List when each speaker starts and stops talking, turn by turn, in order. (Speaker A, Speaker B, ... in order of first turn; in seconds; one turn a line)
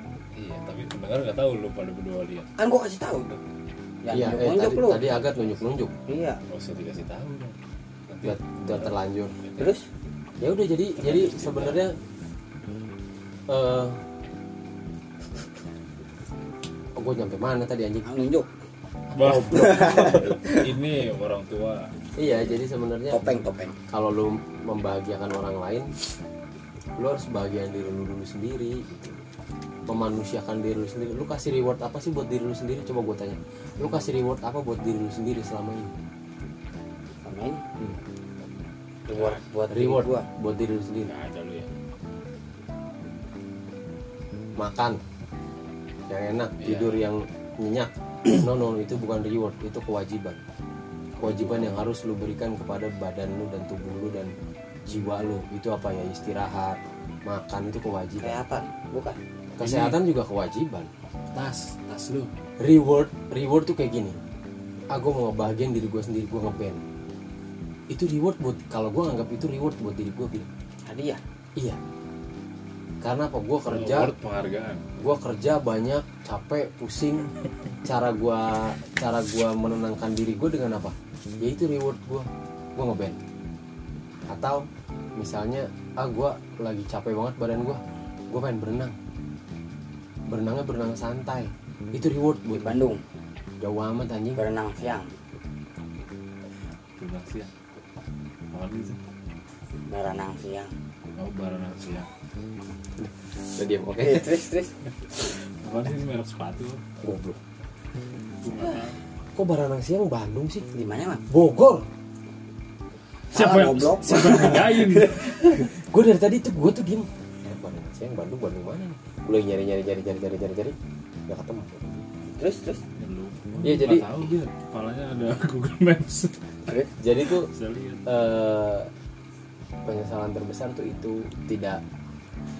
Speaker A: 0.3-2.5
Speaker B: 2.6-3.4
Speaker B: 4.0-5.3
Speaker C: 4.1-6.0
Speaker B: 6.1-6.4
Speaker A: 6.5-7.5
Speaker A: 8.1-9.7
Speaker C: 8.2-9.4
Speaker B: 9.6-9.9
Speaker C: 10.4-11.9
Speaker A: 11.0-11.8
Speaker C: 13.5-14.0
Speaker C: 16.9-18.1
Speaker B: 18.0-18.5
Speaker A: 19.1-21.9
Speaker B: 19.2-20.6
Speaker C: 22.1-23.2
Speaker B: 23.1-23.8
Speaker C: 23.9-25.9
Speaker C: 27.0-29.2
Speaker C: 29.9-35.9
Speaker B: 37.2-37.6
Speaker B: 39.1-40.3
Speaker A: 39.1-39.4
Speaker C: 39.7-41.1
Speaker A: 41.1-41.7
Speaker C: 44.6-45.0
Speaker C: 46.1-50.4
Speaker A: 46.6-47.0
Speaker A: 51.2-51.8
Speaker C: 51.2-54.3
Speaker C: 54.9-58.4
Speaker B: 58.2-59.2
Speaker C: 59.5-60.9
Speaker A: 59.6-60.0
Speaker A: 61.3-62.3
Speaker C: 62.6-64.2
Speaker C: 64.9-66.8
Speaker C: 67.9-70.5
Speaker B: 70.8-71.2
Speaker C: 73.0-74.1
Speaker A: 73.7-74.8
Speaker C: 75.0-77.3
Speaker C: 77.8-83.2
Speaker C: 84.3-84.6
Speaker C: 85.2-88.9
Speaker C: 90.3-92.8
Speaker B: 92.5-93.0
Speaker C: 93.6-94.4
Speaker B: 94.3-95.1
Speaker A: 97.0-97.5
Speaker A: 98.5-99.0
Speaker B: 99.9-100.7
Speaker A: 101.2-102.1
Speaker C: 103.0-104.3
Speaker B: 104.0-104.8
Speaker A: 105.6-106.8
Speaker C: 107.0-107.4
Speaker A: 108.4-109.0
Speaker C: 109.3-110.6
Speaker B: 110.7-111.2
Speaker C: 111.3-111.9
Speaker B: 113.3-115.6
Speaker A: 113.3-115.3
Speaker C: 115.2-120.7
Speaker C: 121.3-122.0
Speaker B: 122.3-122.8
Speaker A: 123.0-126.4
Speaker C: 123.6-124.1
Speaker B: 126.7-126.9
Speaker C: 127.0-127.5
Speaker A: 127.4-128.0
Speaker C: 128.1-128.9
Speaker C: 129.8-131.8